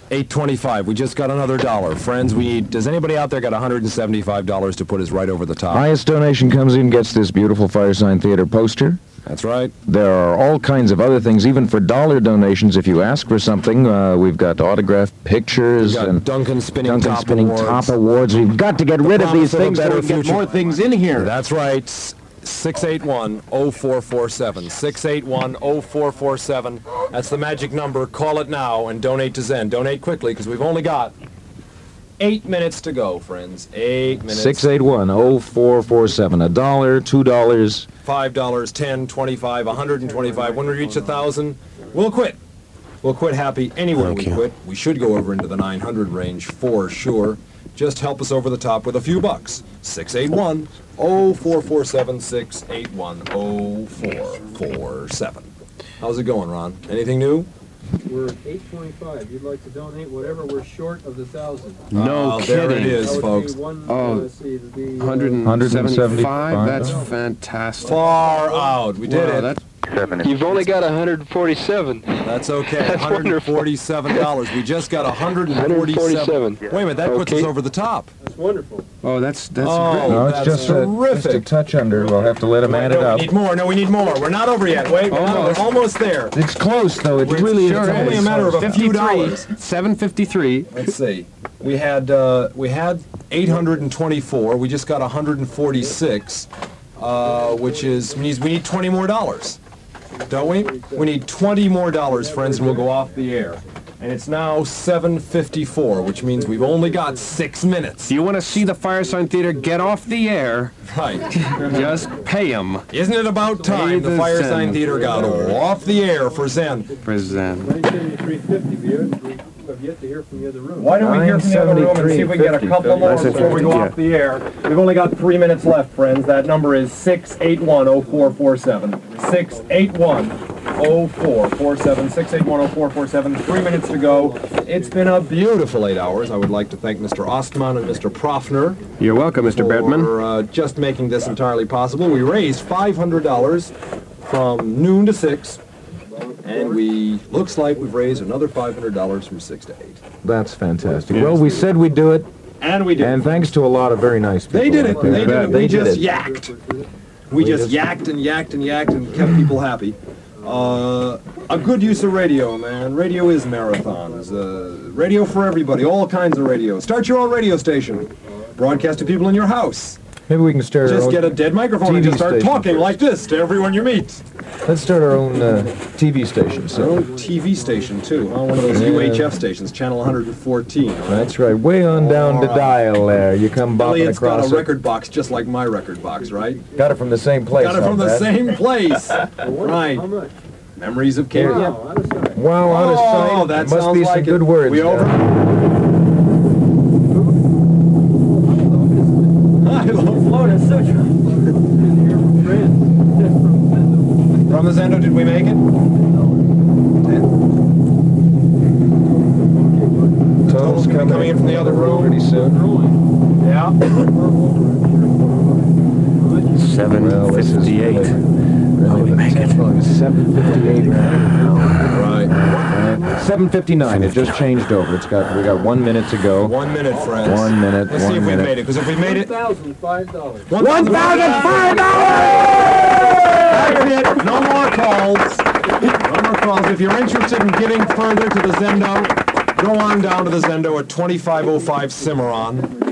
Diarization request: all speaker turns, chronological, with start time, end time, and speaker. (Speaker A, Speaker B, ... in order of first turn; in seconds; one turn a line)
Speaker A: 0.1-5.9
Speaker B: 5.7-9.0
Speaker A: 9.3-9.8
Speaker B: 9.9-16.3
Speaker A: 15.8-18.0
Speaker B: 16.8-21.3
Speaker A: 19.1-20.6
Speaker A: 21.1-31.1
Speaker A: 32.2-34.7
Speaker B: 34.3-37.9
Speaker A: 38.0-42.4
Speaker C: 40.3-41.0
Speaker A: 43.0-57.5
Speaker D: 43.9-44.5
Speaker C: 58.0-61.9
Speaker D: 61.9-63.2
Speaker A: 61.9-63.5
Speaker C: 62.8-67.2
Speaker D: 63.9-64.3
Speaker D: 65.0-68.0
Speaker B: 65.4-67.0
Speaker C: 67.8-68.9
Speaker A: 67.9-69.6
Speaker D: 69.0-69.6
Speaker B: 69.9-70.7
Speaker C: 69.9-70.4
Speaker E: 70.0-74.4
Speaker A: 72.2-78.1
Speaker E: 75.4-77.5
Speaker C: 78.2-78.9
Speaker D: 79.0-80.7
Speaker A: 79.6-81.5
Speaker B: 80.0-83.3
Speaker A: 82.6-86.4
Speaker D: 85.1-85.7
Speaker B: 86.3-88.8
Speaker A: 87.2-89.5
Speaker D: 87.4-90.9
Speaker A: 90.7-99.6
Speaker C: 97.2-98.3
Speaker C: 100.1-101.2
Speaker A: 100.3-108.2
Speaker C: 102.1-103.1
Speaker C: 106.0-107.3
Speaker D: 108.0-110.7
Speaker C: 109.1-110.0
Speaker A: 110.8-112.0
Speaker D: 111.3-112.9
Speaker C: 111.5-112.3
Speaker A: 112.9-116.9
Speaker D: 113.7-115.7
Speaker C: 114.8-121.0
Speaker D: 117.0-117.8
Speaker A: 120.8-138.8
Speaker B: 121.0-123.8
Speaker D: 123.0-124.0
Speaker C: 127.9-128.4
Speaker C: 129.2-129.9
Speaker C: 133.8-135.4
Speaker D: 139.0-140.2
Speaker A: 139.4-145.6
Speaker C: 146.1-146.8
Speaker A: 146.4-150.0
Speaker B: 150.2-152.3
Speaker D: 151.1-151.4
Speaker A: 152.6-153.5
Speaker B: 153.0-156.1
Speaker A: 154.5-156.5
Speaker C: 154.8-156.9
Speaker D: 155.2-155.6
Speaker A: 157.3-170.0
Speaker B: 157.4-157.8
Speaker C: 160.4-160.8
Speaker C: 163.8-165.0
Speaker C: 168.0-169.3
Speaker B: 170.3-173.0
Speaker A: 170.8-174.2
Speaker B: 174.6-177.0
Speaker C: 176.5-178.1
Speaker A: 176.7-181.3
Speaker B: 178.7-179.3
Speaker B: 181.1-184.7
Speaker A: 181.9-182.8
Speaker A: 183.8-186.6
Speaker C: 186.2-186.9
Speaker B: 186.7-188.3
Speaker A: 187.6-190.1
Speaker C: 189.4-190.4
Speaker A: 190.8-191.8
Speaker B: 191.3-191.8
Speaker C: 191.4-192.4
Speaker B: 192.3-195.2
Speaker A: 192.6-195.3
Speaker C: 197.1-197.4
Speaker C: 198.3-204.9
Speaker A: 199.6-201.0
Speaker A: 204.5-205.7
Speaker C: 205.7-206.5
Speaker A: 207.0-207.3
Speaker C: 209.2-210.5
Speaker A: 210.5-212.1
Speaker B: 210.5-212.7
Speaker C: 211.2-213.0
Speaker A: 213.4-214.1
Speaker C: 213.9-216.9
Speaker D: 216.5-218.2
Speaker B: 216.9-218.2
Speaker B: 218.7-226.6
Speaker D: 218.8-222.0
Speaker C: 220.5-221.2
Speaker A: 221.9-222.4
Speaker A: 226.4-229.3
Speaker C: 226.9-227.4
Speaker B: 227.2-228.6
Speaker C: 229.0-231.2
Speaker A: 230.5-232.7
Speaker B: 230.6-233.9
Speaker C: 231.8-233.2
Speaker A: 233.3-242.7